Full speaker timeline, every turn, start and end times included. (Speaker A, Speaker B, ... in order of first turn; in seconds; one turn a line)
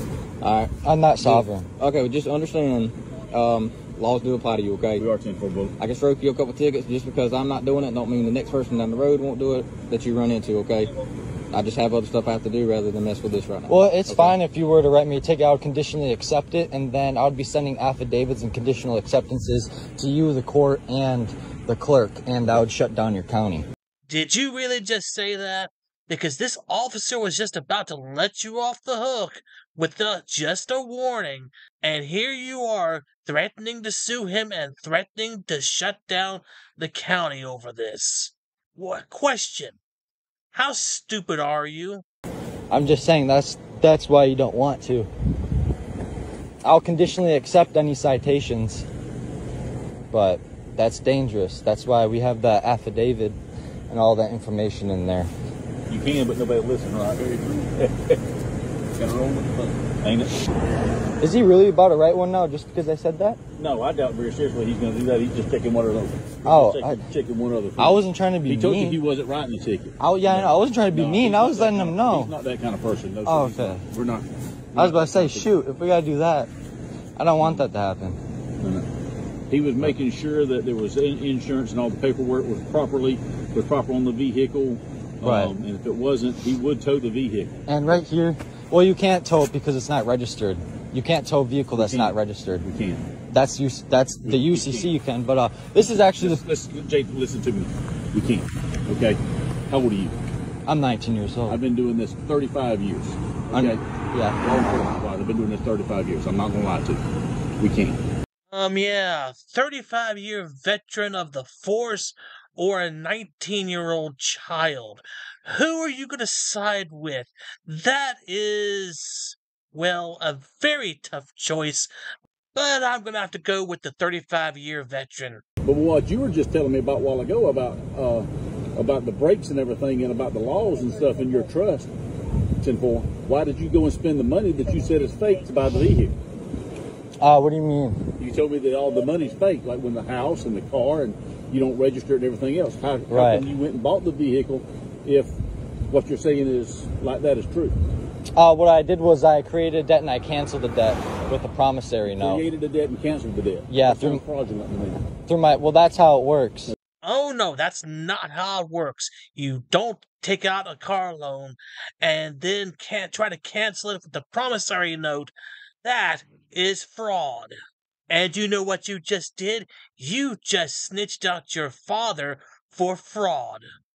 Speaker A: 0.4-5.1
Speaker B: 0.8-1.7
Speaker C: 5.0-5.7
Speaker A: 5.8-10.9
Speaker A: 11.5-14.4
Speaker B: 13.7-23.7
Speaker D: 24.1-39.8
Speaker D: 40.5-42.0
Speaker B: 42.7-45.1
Speaker B: 46.6-48.9
Speaker B: 50.1-53.4
Speaker B: 53.9-55.3
Speaker C: 55.9-58.2
Speaker C: 59.0-60.4
Speaker B: 61.2-63.4
Speaker C: 63.6-67.9
Speaker B: 66.5-67.0
Speaker B: 67.8-69.0
Speaker C: 68.5-70.0
Speaker B: 70.0-72.3
Speaker C: 70.9-75.5
Speaker B: 73.2-73.8
Speaker B: 74.8-76.5
Speaker B: 77.2-78.2
Speaker C: 78.6-78.9
Speaker C: 79.5-87.5
Speaker B: 85.2-85.5
Speaker B: 87.7-92.7
Speaker C: 91.8-92.1
Speaker C: 92.7-93.1
Speaker B: 93.3-96.4
Speaker C: 94.3-94.9
Speaker C: 96.2-100.2
Speaker B: 100.7-101.6
Speaker C: 101.5-103.8
Speaker B: 103.5-104.4
Speaker C: 104.4-107.0
Speaker C: 107.6-108.0
Speaker D: 108.5-121.9
Speaker D: 122.5-125.4
Speaker C: 125.7-131.9
Speaker C: 132.6-136.1
Speaker B: 137.2-138.0
Speaker C: 138.2-145.3
Speaker B: 143.1-143.5
Speaker C: 145.9-147.8
Speaker B: 148.4-152.4
Speaker C: 152.1-155.0
Speaker B: 153.7-154.2
Speaker B: 155.3-156.7
Speaker D: 157.0-165.3
Speaker D: 165.8-167.5
Speaker D: 168.1-173.6